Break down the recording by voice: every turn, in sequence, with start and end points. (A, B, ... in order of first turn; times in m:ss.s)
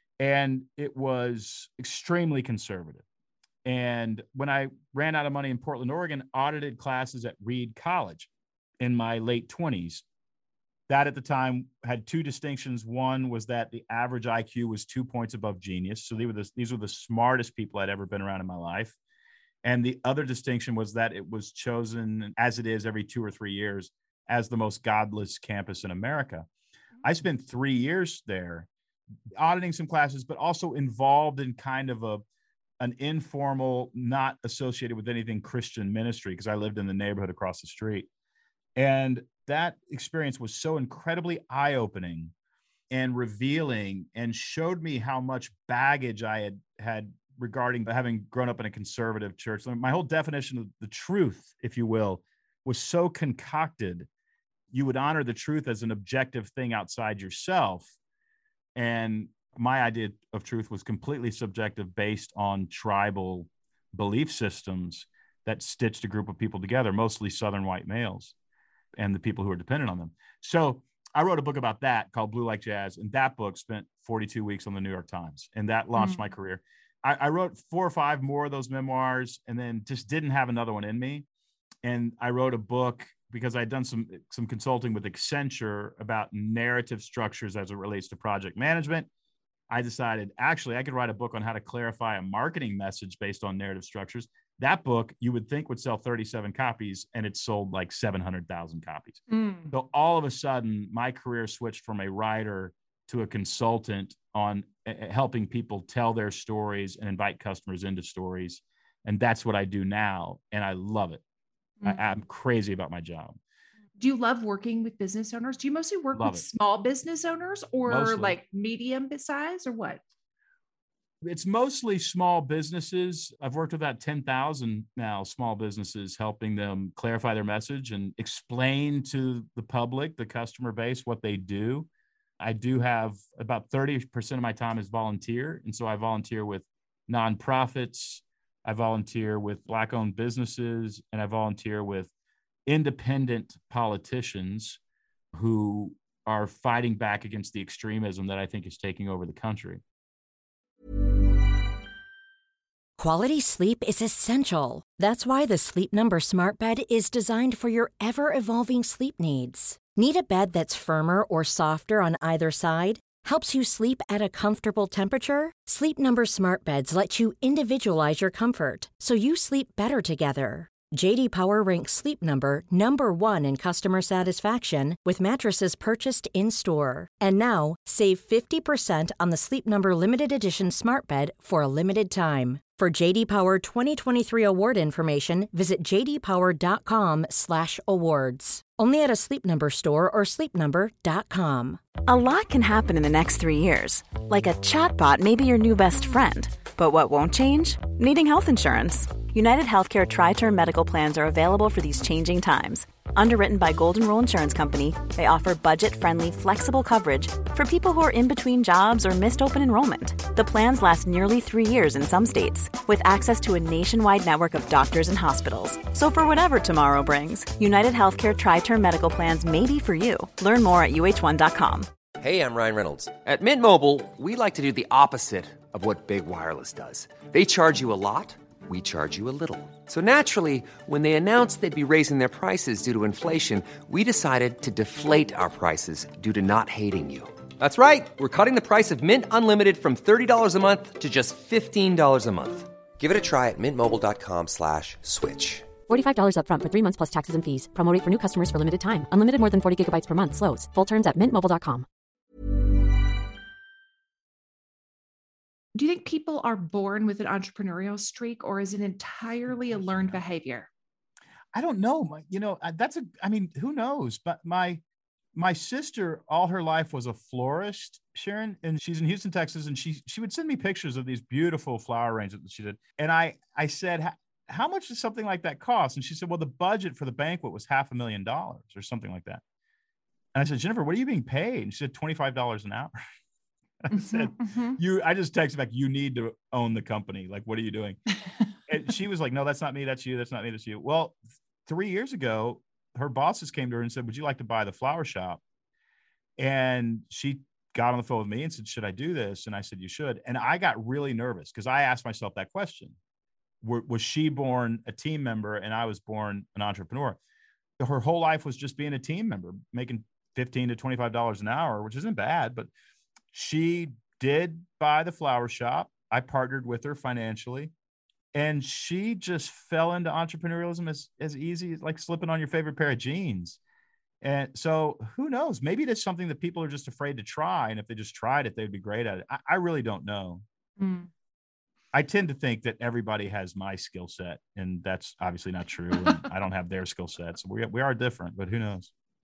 0:00.2-0:03.0 A
0:03.6-0:08.3 A
0:08.8-0:10.0 A
0:10.9-0:19.0 A
0:19.6-0:26.5 A
0:27.0-0:28.7 A
0:29.4-0:32.2 A
0:32.8-0:38.1 A
0:38.8-0:42.3 A
0:42.9-0:54.1 A
0:54.7-0:57.9 A
0:58.8-1:08.3 A
1:08.9-1:21.3 A
1:21.8-1:29.1 A
1:29.7-1:51.2 A
1:39.3-1:39.7 B
1:51.8-1:53.4 A
1:54.0-2:00.0 B
1:56.1-1:56.4 A
1:57.9-1:58.4 A
2:01.2-2:11.9 A
2:12.4-2:22.1 A
2:22.7-2:24.8 A
2:25.3-2:29.8 A
2:33.0-3:11.8 C
3:12.1-3:41.9 D
3:42.2-4:05.7 E
4:05.9-4:11.9 F
4:15.8-4:20.7 B
4:19.7-4:20.0 A
4:21.5-4:24.8 A
4:25.3-4:39.4 A
4:40.3-4:42.9 A
4:43.8-4:48.0 A
4:43.9-4:44.8 B
4:48.7-4:55.4 A
4:56.4-5:03.0 A
5:03.6-5:07.2 A
5:07.8-5:12.7 A
5:13.3-5:17.7 A
5:18.3-5:23.6 A
5:24.2-5:30.4 A
5:30.8-5:31.1 B
5:31.9-5:38.9 A